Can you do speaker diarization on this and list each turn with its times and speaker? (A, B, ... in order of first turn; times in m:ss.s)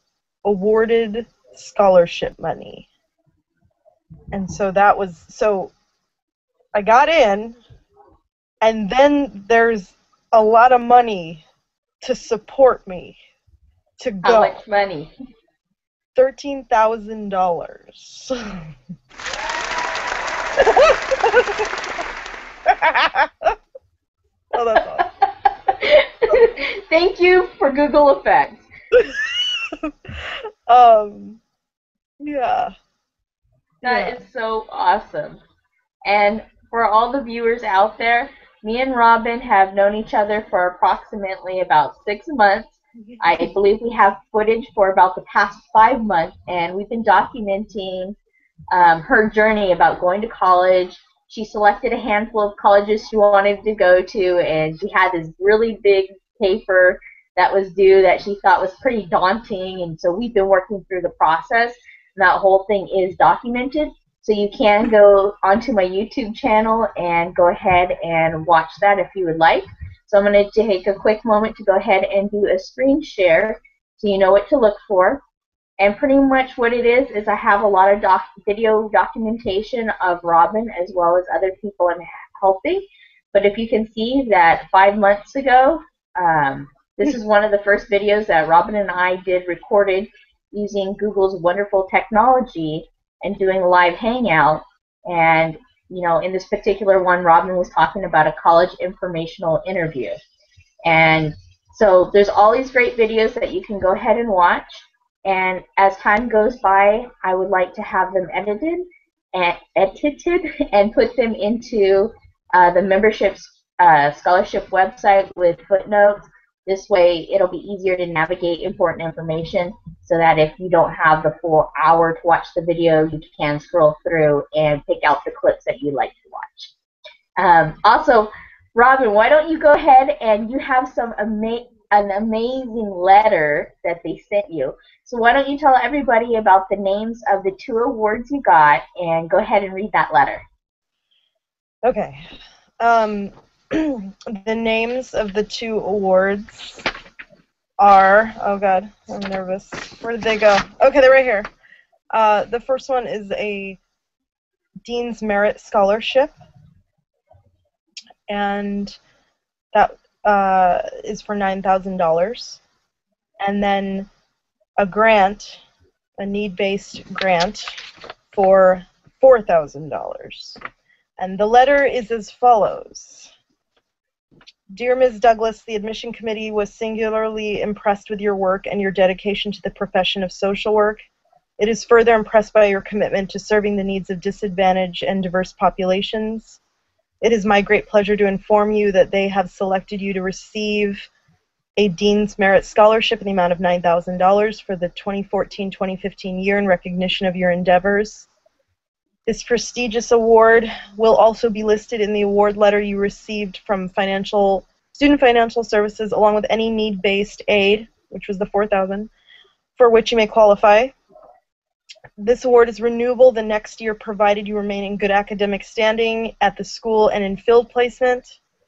0:00.4-0:02.9 A
0:04.3-0:05.7 A
0:06.7-0:07.6 A
0:08.6-0:11.4 A
0:12.0-0:13.2 A
0:14.0-0:14.6 A
0:14.2-0:15.1 B
0:16.1-0:18.6 A
0:20.6-0:21.5 A
0:22.7-0:23.5 A
0:24.5-0:25.1 A
0:25.0-0:28.7 B
0:29.0-0:29.9 A
0:30.7-0:31.4 A
0:32.2-0:32.7 A
0:33.8-0:35.4 B
0:33.8-0:34.2 A
0:36.0-0:48.2 B
0:48.7-1:15.2 B
1:15.8-1:40.2 B
1:40.8-2:06.7 B
2:07.4-2:20.4 B
2:21.8-2:22.2 A
2:22.8-2:26.8 A
2:27.8-2:31.5 A
2:32.1-2:33.8 A
2:34.8-2:36.3 A
2:38.3-2:39.0 A
2:39.7-2:42.6 A
2:43.4-2:44.1 A
2:44.8-2:45.6 A
2:46.2-2:47.7 A
2:48.3-2:50.6 A
2:51.2-2:53.3 A
2:54.7-3:01.0 A
3:01.6-3:06.6 A
3:07.2-3:11.1 A
3:11.8-3:18.3 A
3:19.2-3:29.1 A
3:29.8-3:30.9 A
3:32.2-3:38.4 A